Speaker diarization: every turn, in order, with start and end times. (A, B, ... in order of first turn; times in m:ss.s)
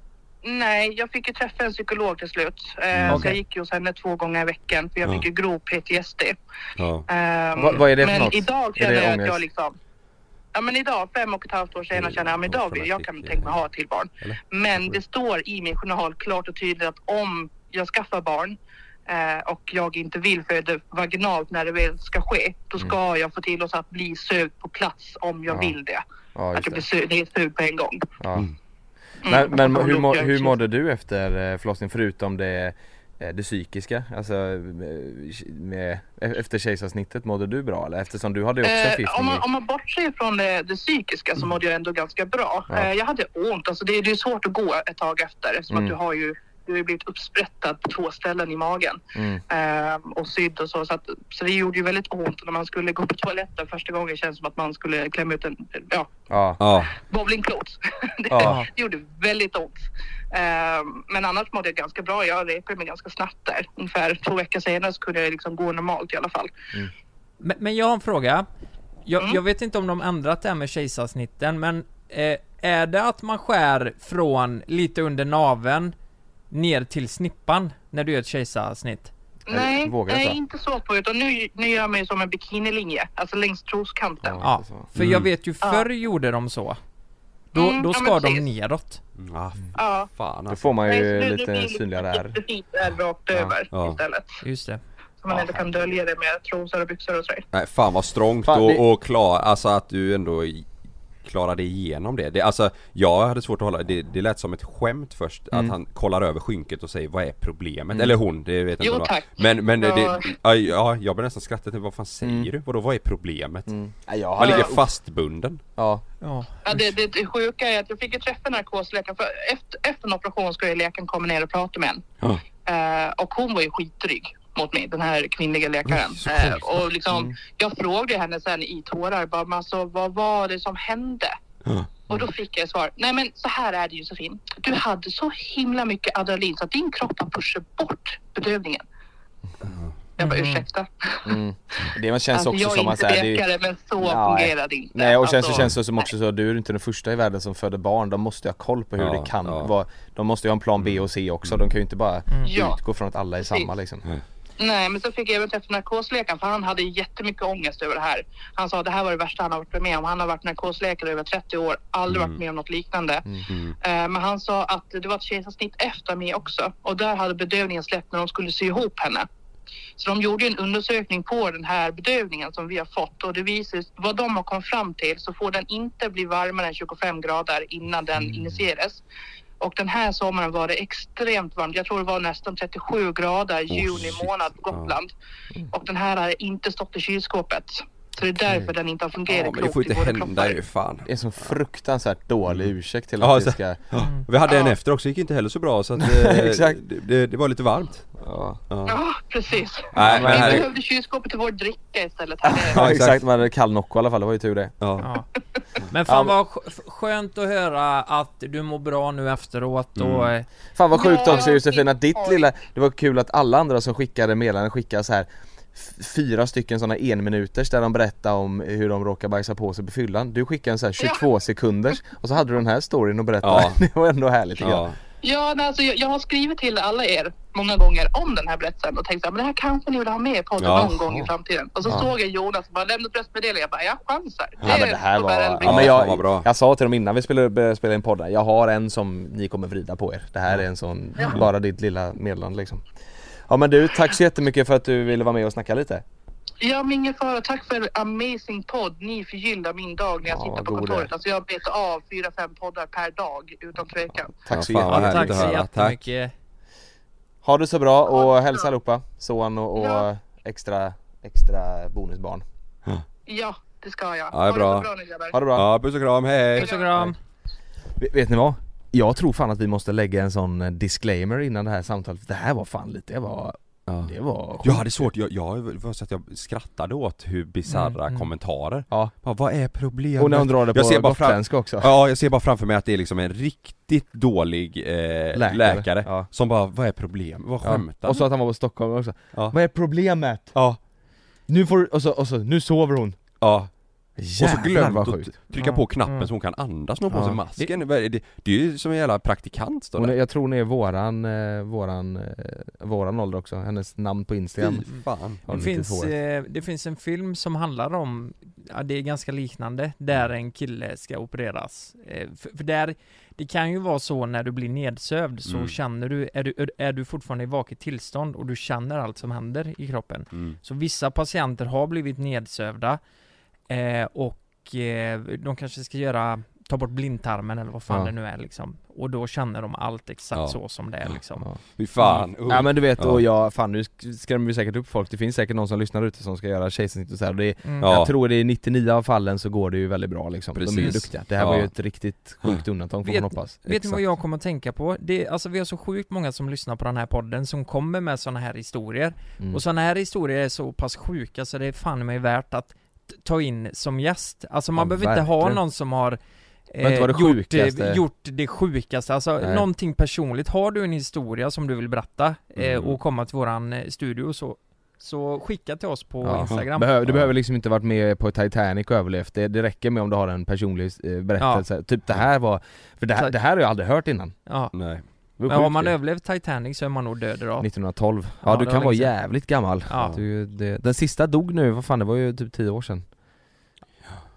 0:00.4-0:06.4 A
0:02.9-0:03.3 B
0:03.1-0:03.4 C
0:06.8-0:07.0 B
0:07.1-0:09.8 A
0:07.6-0:09.4 D
0:10.5-0:18.6 A
0:11.9-0:13.6 B
0:19.1-0:26.0 A
0:25.5-0:25.8 D
0:26.4-0:26.8 D
0:26.5-0:28.1 A
0:28.2-0:28.5 D
0:29.2-0:30.6 A
0:29.3-0:39.4 D
0:38.6-0:56.1 A
0:49.2-0:49.4 D
0:56.3-0:56.6 D
0:56.6-0:57.0 B
0:57.0-1:06.5 A
0:58.3-0:58.6 D
0:58.4-0:58.7 C
1:07.4-1:08.4 C
1:09.1-1:16.0 C
1:16.5-1:19.1 C
1:19.5-1:24.4 A
1:19.5-1:20.4 D
1:24.2-1:24.9 D
1:24.4-1:26.8 C
1:25.0-1:25.3 B
1:27.5-1:29.0 C
1:27.6-1:28.4 A
1:29.2-1:30.7 B
1:29.8-1:30.1 A
1:30.5-1:32.4 D
1:30.8-1:34.4 A
1:33.3-1:33.6 D
1:33.7-1:34.0 B
1:34.4-1:34.8 C
1:35.2-1:37.4 A
1:35.3-1:35.6 D
1:37.5-1:40.7 B
1:38.5-1:38.8 D
1:41.2-1:53.8 B
1:47.9-1:48.2 D
1:48.8-1:50.4 A
1:52.2-1:52.5 D
1:53.7-1:54.8 D
1:54.4-1:55.6 B
1:54.4-1:54.7 A
1:55.8-1:56.0 D
1:56.2-1:56.9 C
1:56.6-2:02.0 A
2:02.7-2:11.3 A
2:05.9-2:06.8 B
2:12.1-2:18.8 A
2:19.6-2:20.0 B
2:20.2-2:21.4 A
2:20.2-2:20.7 C
2:21.3-2:23.4 D
2:22.3-2:26.0 A
2:24.0-2:34.1 D
2:29.0-2:29.7 B
2:30.8-2:31.8 B
2:32.4-2:32.8 A
2:33.4-2:33.7 A
2:34.6-2:43.3 A
2:42.1-2:42.4 B
2:43.5-2:43.8 B
2:43.8-2:49.3 A
2:50.0-2:59.0 A
2:59.6-3:05.1 A
3:03.7-3:05.0 B
3:05.7-3:10.6 A
3:09.3-3:11.6 B
3:11.1-3:13.8 D
3:12.5-3:18.1 B
3:14.0-3:14.3 C
3:14.4-3:14.8 A
3:16.0-3:16.8 D
3:18.2-3:18.6 D
3:18.7-3:19.0 B
3:18.9-3:22.9 A
3:19.9-3:20.7 B
3:20.0-3:20.7 D
3:22.5-3:24.7 D
3:22.8-3:23.2 B
3:24.8-3:25.0 B
3:25.9-3:30.5 C
3:26.1-3:26.4 D
3:30.0-3:30.3 B
3:30.8-3:44.8 D
3:30.9-3:32.5 A
3:41.0-3:41.3 A
3:43.4-3:43.8 B
3:44.6-3:45.0 B
3:45.2-3:55.9 A
3:50.6-3:51.1 B
3:54.6-4:02.8 D
3:55.6-3:56.5 B
4:03.5-4:06.0 D
4:06.6-4:14.4 A
4:10.3-4:11.1 D
4:14.4-4:15.5 D
4:14.5-4:16.1 B
4:14.9-4:16.3 C
4:17.4-4:22.4 D
4:18.1-4:18.6 A
4:19.8-4:20.1 A
4:23.3-4:25.4 A
4:24.3-4:24.9 B
4:25.3-4:25.7 D
4:25.5-4:26.7 B
4:26.6-4:27.0 A
4:26.6-4:27.2 C
4:28.0-4:34.9 D
4:33.9-4:48.2 B
4:37.7-4:38.3 C
4:40.2-4:41.9 D
4:45.3-4:46.3 D
4:47.6-4:50.7 D
4:51.5-4:53.3 D
4:53.4-4:53.7 B
4:54.2-4:55.3 D
4:54.3-5:00.2 B
4:55.5-4:56.3 C
4:57.1-4:57.4 D
5:00.0-5:04.9 D
5:04.6-5:05.4 B
5:05.4-5:06.1 D
5:05.5-5:23.0 C
5:15.5-5:15.8 B
5:20.3-5:20.6 B
5:23.7-5:31.5 C
5:27.9-5:28.1 D
5:30.4-5:31.2 B
5:31.8-5:33.2 B
5:32.0-5:32.3 C
5:32.2-5:44.0 D
5:37.6-5:37.9 C
5:37.8-5:38.1 B
5:40.6-5:41.7 B
5:43.0-5:56.2 C
5:54.8-5:55.6 D
5:56.7-6:06.9 C
5:56.8-5:58.0 D
5:59.4-5:59.7 D
6:02.6-6:03.0 B
6:06.2-6:14.4 D
6:06.5-6:07.3 B
6:11.4-6:11.6 C
6:14.5-6:14.7 C
6:14.7-6:15.0 B
6:15.3-6:17.7 C
6:15.4-6:16.0 D
6:17.6-6:23.1 D
6:18.4-6:20.2 C
6:19.9-6:20.2 B